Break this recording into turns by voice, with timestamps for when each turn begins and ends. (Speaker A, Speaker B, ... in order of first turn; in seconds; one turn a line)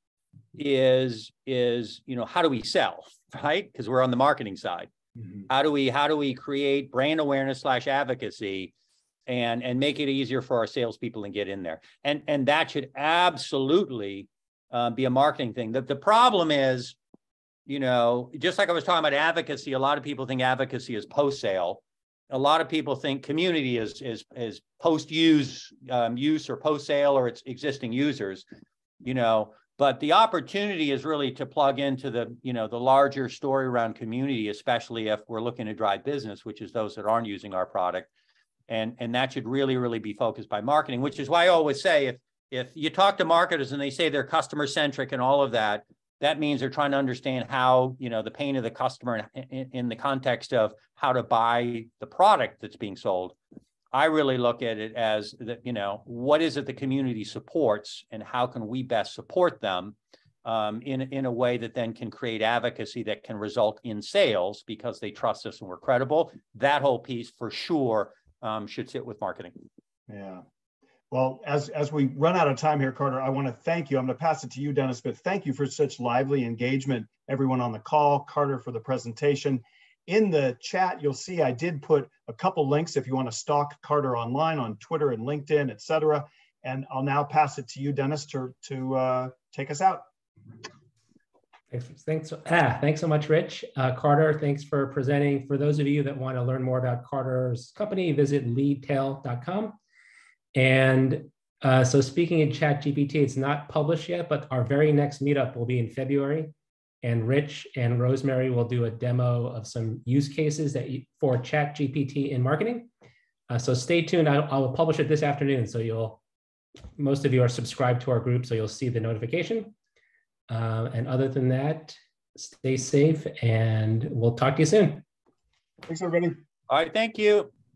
Speaker A: 0.5-4.9
Speaker B: 5.2-5.4
Speaker A: 5.5-8.7
Speaker A: 9.3-17.0
Speaker A: 17.6-28.4
Speaker A: 29.0-38.1
Speaker A: 38.7-53.4
Speaker A: 53.9-69.6
Speaker B: 70.1-70.4
Speaker B: 71.1-90.0
Speaker C: 91.7-99.8
Speaker C: 100.5-112.9
Speaker C: 113.5-116.2
Speaker C: 117.0-119.7
Speaker C: 120.5-125.0
Speaker B: 125.9-126.4
Speaker A: 126.7-127.5